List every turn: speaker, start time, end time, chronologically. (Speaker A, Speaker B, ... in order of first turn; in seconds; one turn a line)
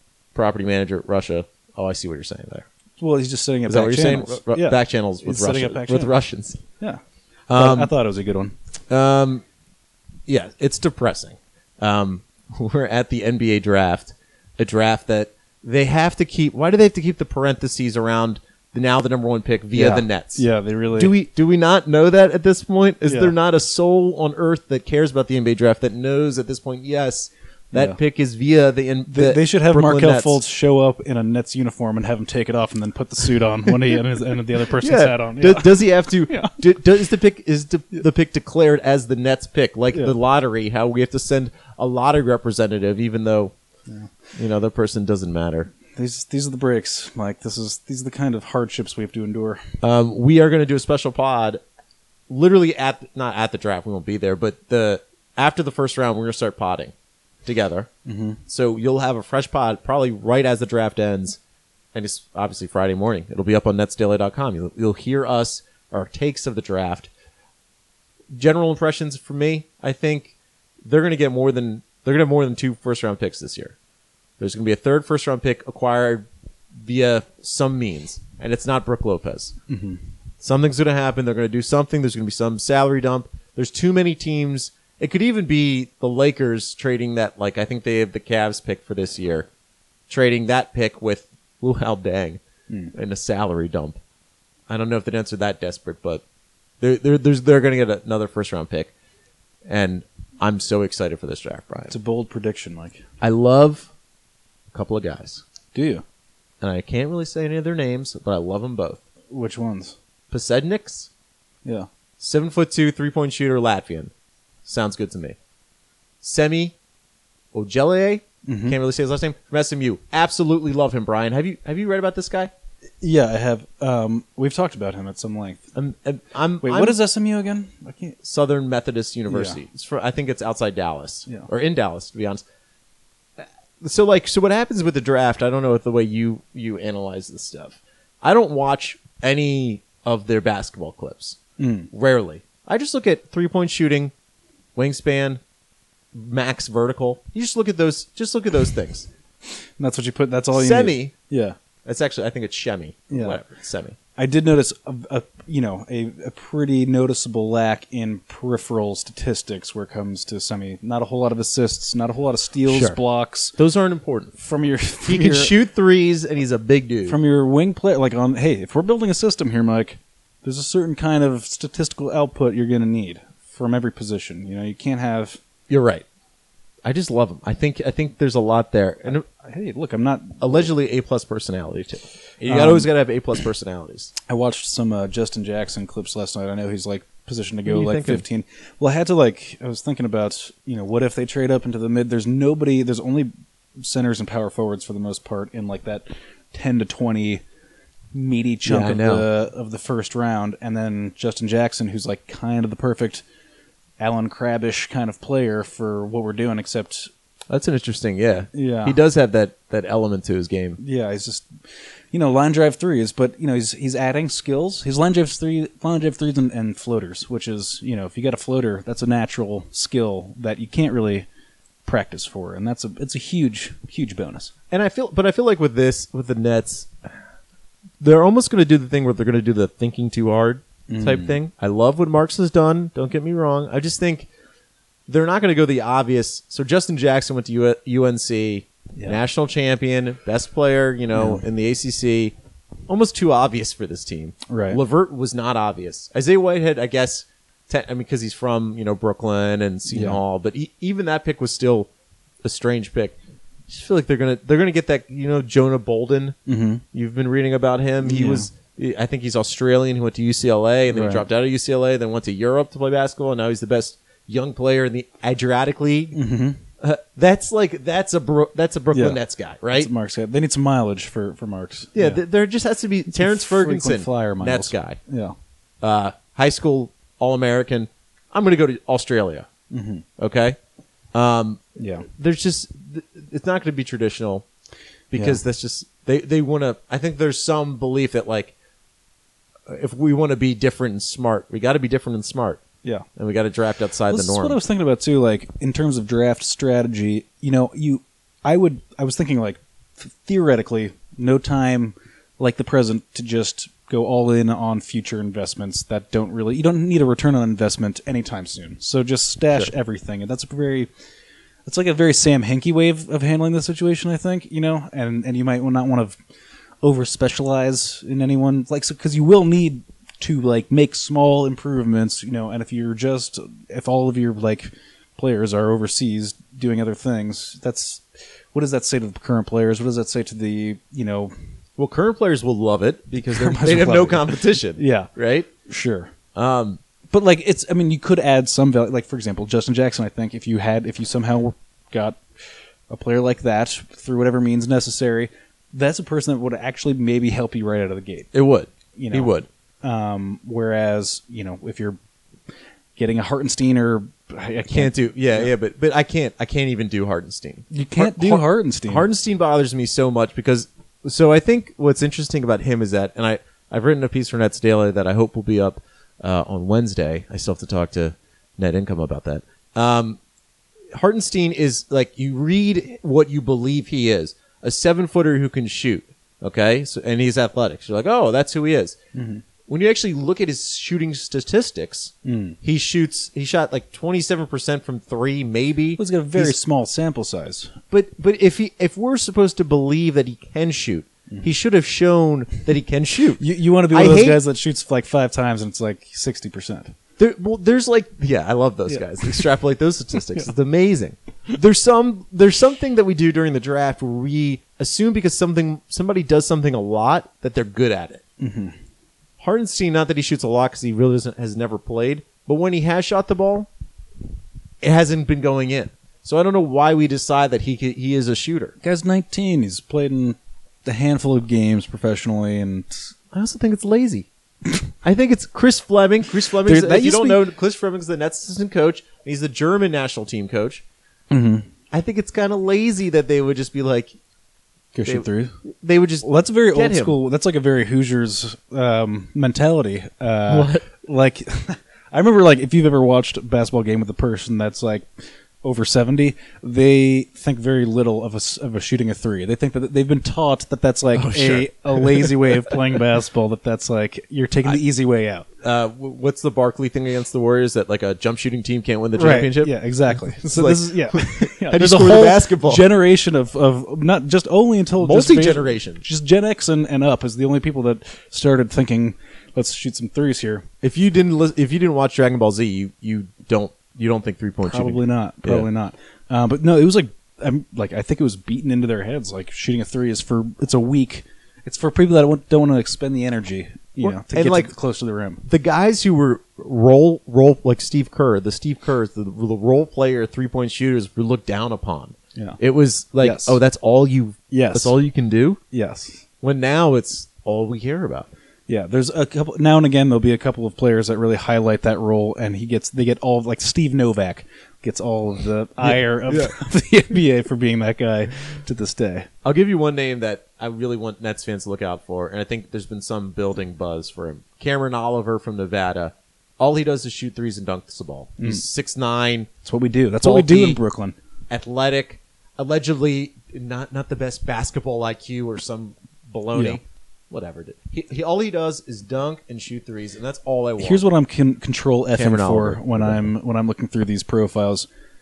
Speaker A: 0.3-2.6
Speaker B: 3.0-6.1
Speaker A: 3.7-6.6
Speaker A: 7.5-7.9
Speaker B: 7.5-8.5
Speaker A: 8.9-9.4
Speaker A: 10.3-30.4
Speaker B: 19.7-21.1
Speaker B: 23.1-23.3
Speaker B: 27.7-28.0
Speaker B: 29.1-36.6
Speaker A: 34.8-43.5
Speaker A: 44.3-45.7
Speaker B: 45.9-49.6
Speaker A: 49.8-51.6
Speaker A: 52.3-56.9
Speaker A: 57.4-57.9
Speaker B: 58.0-58.4
Speaker A: 58.5-61.4
Speaker A: 61.9-67.1
Speaker A: 68.3-73.8
Speaker A: 74.4-76.3
Speaker A: 76.8-79.6
Speaker B: 79.7-80.0
Speaker A: 80.4-89.5
Speaker A: 90.1-92.4
Speaker A: 92.9-94.0
Speaker A: 94.7-96.2
Speaker A: 96.8-98.9
Speaker A: 99.7-101.9
Speaker B: 101.9-103.0
Speaker A: 103.2-103.9
Speaker A: 104.7-105.4
Speaker B: 105.7-106.0
Speaker A: 106.6-109.0
Speaker B: 109.3-110.0
Speaker A: 110.3-111.1
Speaker A: 112.2-114.1
Speaker A: 114.6-115.4
Speaker A: 116.2-116.7
Speaker A: 117.5-122.5
Speaker B: 118.5-118.8
Speaker B: 123.0-125.7
Speaker A: 125.7-127.0
Speaker B: 126.6-128.2
Speaker A: 128.2-132.4
Speaker B: 129.3-129.6
Speaker A: 133.8-141.4
Speaker B: 141.6-141.9
Speaker A: 141.9-144.1
Speaker A: 144.7-145.4
Speaker A: 146.1-149.1
Speaker B: 149.5-151.6
Speaker A: 150.5-151.1
Speaker A: 151.8-153.9
Speaker B: 153.1-153.4
Speaker B: 154.2-163.6
Speaker A: 162.6-163.0
Speaker A: 163.6-164.3
Speaker B: 164.4-165.5
Speaker A: 165.1-167.2
Speaker B: 167.1-175.4
Speaker A: 175.7-176.0
Speaker A: 176.8-179.2
Speaker B: 179.4-180.7
Speaker A: 180.4-184.1
Speaker B: 182.5-182.9
Speaker B: 184.3-197.4
Speaker A: 187.7-188.2
Speaker B: 198.1-203.2
Speaker A: 198.6-199.2
Speaker B: 204.0-207.1
Speaker A: 207.5-210.8
Speaker B: 208.5-209.0
Speaker B: 210.8-221.2
Speaker B: 221.8-224.5
Speaker A: 224.7-227.1
Speaker A: 228.0-234.3
Speaker B: 230.9-231.4
Speaker A: 235.1-242.3
Speaker B: 241.1-241.4
Speaker A: 242.9-251.9
Speaker B: 244.5-244.8
Speaker B: 249.9-250.2
Speaker A: 252.4-253.2
Speaker A: 253.7-256.4
Speaker B: 256.5-256.8
Speaker A: 256.9-266.2
Speaker B: 258.0-258.5
Speaker B: 260.9-261.3
Speaker B: 266.1-266.6
Speaker A: 266.8-269.9
Speaker B: 268.9-269.2
Speaker B: 269.7-272.2
Speaker A: 271.9-275.0
Speaker B: 273.1-275.4
Speaker A: 275.8-279.5
Speaker B: 279.7-280.0
Speaker A: 280.2-280.6
Speaker A: 281.1-284.5
Speaker B: 281.8-282.1
Speaker A: 285.1-288.5
Speaker B: 285.1-285.4
Speaker A: 289.7-292.6
Speaker A: 293.1-294.6
Speaker B: 294.1-310.9
Speaker B: 311.6-316.2
Speaker B: 316.8-331.3
Speaker A: 331.8-335.5
Speaker B: 333.2-336.1
Speaker A: 336.3-336.8
Speaker B: 337.1-348.3
Speaker A: 348.3-349.4
Speaker B: 348.9-352.0
Speaker B: 352.9-355.5
Speaker A: 354.7-370.2
Speaker B: 357.7-359.1
Speaker A: 370.9-379.0
Speaker B: 379.1-379.4
Speaker A: 379.6-386.6
Speaker B: 382.2-382.6
Speaker B: 386.0-387.7
Speaker A: 387.9-394.4
Speaker B: 393.4-396.9
Speaker A: 397.2-408.2
Speaker B: 398.9-399.4
Speaker B: 408.4-408.7
Speaker A: 409.4-413.7
Speaker A: 414.8-418.7
Speaker B: 418.8-423.1
Speaker A: 423.3-424.3
Speaker A: 425.0-430.8
Speaker B: 426.6-427.4
Speaker B: 431.3-431.7
Speaker A: 431.9-434.1
Speaker B: 434.9-435.5
Speaker A: 435.1-437.1
Speaker B: 436.2-455.5
Speaker A: 440.5-440.8
Speaker A: 451.1-452.7
Speaker A: 455.6-462.8
Speaker B: 459.1-470.6
Speaker A: 465.0-466.0
Speaker A: 470.8-475.7
Speaker B: 474.6-485.4
Speaker A: 484.0-484.7
Speaker A: 485.4-495.6
Speaker B: 493.2-493.6
Speaker B: 494.5-495.0
Speaker B: 495.7-496.3
Speaker A: 496.4-498.3
Speaker B: 498.7-509.3
Speaker A: 505.8-506.6
Speaker A: 509.4-519.5
Speaker B: 519.6-521.1
Speaker A: 520.2-520.8
Speaker A: 521.5-531.0
Speaker B: 526.5-526.8
Speaker B: 530.8-534.9
Speaker A: 532.1-533.1